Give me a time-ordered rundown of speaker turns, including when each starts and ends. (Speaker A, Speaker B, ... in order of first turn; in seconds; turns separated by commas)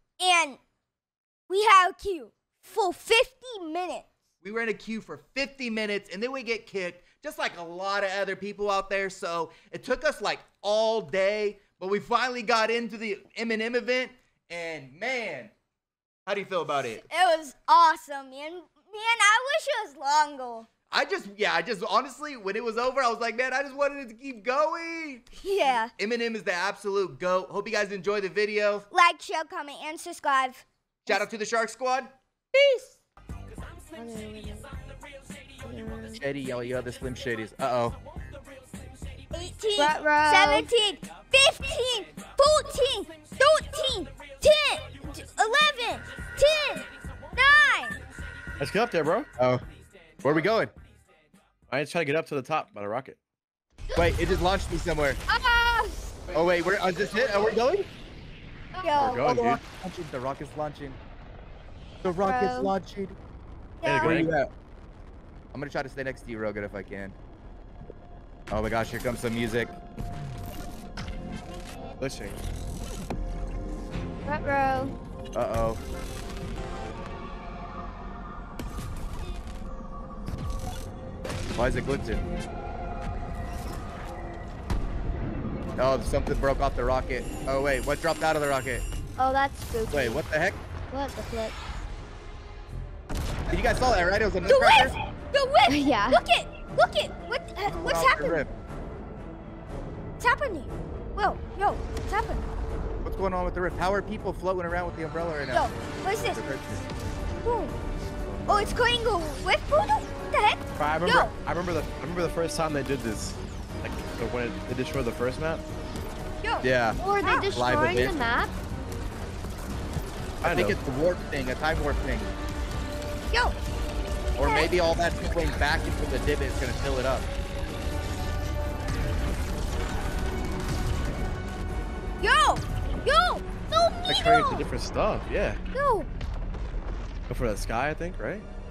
Speaker A: 0.2-0.6, Speaker A: 1.5-4.1, Speaker B: 4.4-15.5, Speaker B: 16.2-17.0, Speaker A: 17.1-20.7, Speaker B: 20.9-25.3, Speaker A: 25.4-25.9, Speaker B: 25.9-28.9, Speaker A: 28.9-31.2, Speaker B: 31.1-32.1, Speaker A: 32.5-33.0, Speaker C: 33.9-34.7, Speaker C: 35.6-36.2, Speaker B: 36.2-38.0, Speaker A: 39.3-48.0, Speaker C: 39.8-40.7, Speaker D: 48.6-49.3, Speaker B: 50.2-50.7, Speaker D: 51.7-53.2, Speaker B: 54.0-55.2, Speaker C: 55.3-56.0, Speaker B: 56.3-57.9, Speaker A: 58.8-59.4, Speaker D: 59.0-59.6, Speaker B: 59.3-61.0, Speaker B: 62.0-63.2, Speaker C: 62.2-62.7, Speaker A: 63.8-64.2, Speaker D: 63.8-64.3, Speaker B: 64.0-64.5, Speaker B: 65.5-67.2, Speaker B: 68.5-69.8, Speaker D: 72.0-72.4, Speaker C: 74.2-75.0, Speaker B: 75.3-75.8, Speaker B: 81.6-82.3, Speaker B: 85.8-88.8, Speaker C: 89.2-90.2, Speaker B: 89.9-90.6, Speaker C: 90.9-91.6, Speaker B: 93.5-94.9, Speaker A: 94.5-98.4, Speaker C: 95.7-96.2, Speaker B: 97.7-98.5, Speaker A: 100.2-102.5, Speaker B: 103.0-105.7, Speaker A: 105.5-106.4, Speaker B: 106.2-106.8, Speaker A: 107.4-107.7, Speaker A: 108.5-111.3, Speaker D: 110.8-115.6, Speaker A: 116.4-116.7, Speaker B: 116.6-117.0, Speaker C: 117.0-118.5, Speaker A: 117.2-117.5, Speaker B: 117.5-118.2, Speaker D: 120.4-120.8, Speaker B: 120.4-122.3, Speaker A: 123.3-123.6, Speaker B: 124.4-127.3, Speaker A: 124.4-124.7, Speaker A: 132.2-134.7, Speaker D: 134.1-135.6, Speaker A: 135.7-136.1, Speaker D: 137.3-138.5